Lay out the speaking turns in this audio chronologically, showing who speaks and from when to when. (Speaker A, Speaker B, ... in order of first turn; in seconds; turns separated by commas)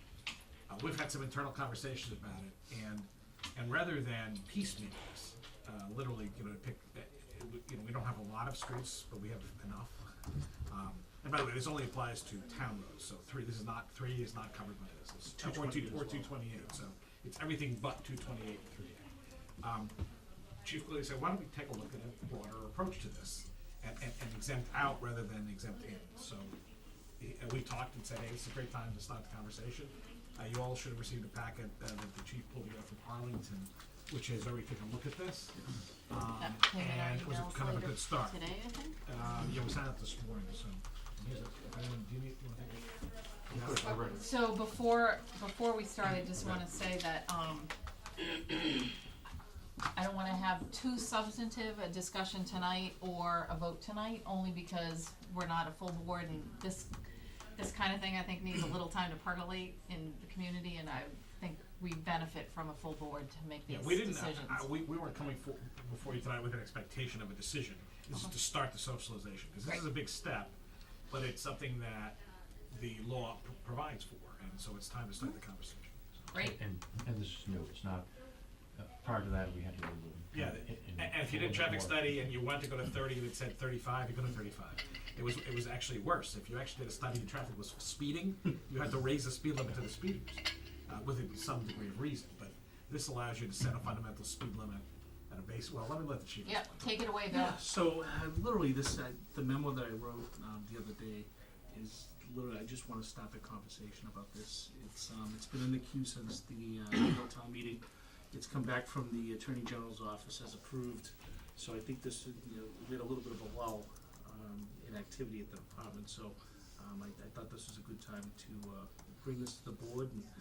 Speaker A: 0.7-10.1, Speaker A: 10.7-19.0, Speaker B: 15.3-16.8, Speaker A: 19.6-19.9, Speaker A: 20.6-26.5, Speaker A: 27.2-35.5, Speaker A: 36.1-38.4, Speaker C: 36.4-39.5, Speaker A: 39.0-42.8, Speaker A: 43.5-44.1, Speaker C: 43.9-47.7, Speaker C: 49.9-56.9, Speaker C: 57.6-64.7, Speaker A: 63.7-70.5, Speaker A: 71.1-72.2, Speaker A: 72.7-76.3, Speaker C: 76.3-76.6, Speaker D: 76.4-78.0, Speaker D: 78.7-82.1, Speaker A: 80.3-97.0, Speaker C: 96.4-97.6, Speaker B: 97.3-107.8, Speaker B: 108.3-120.2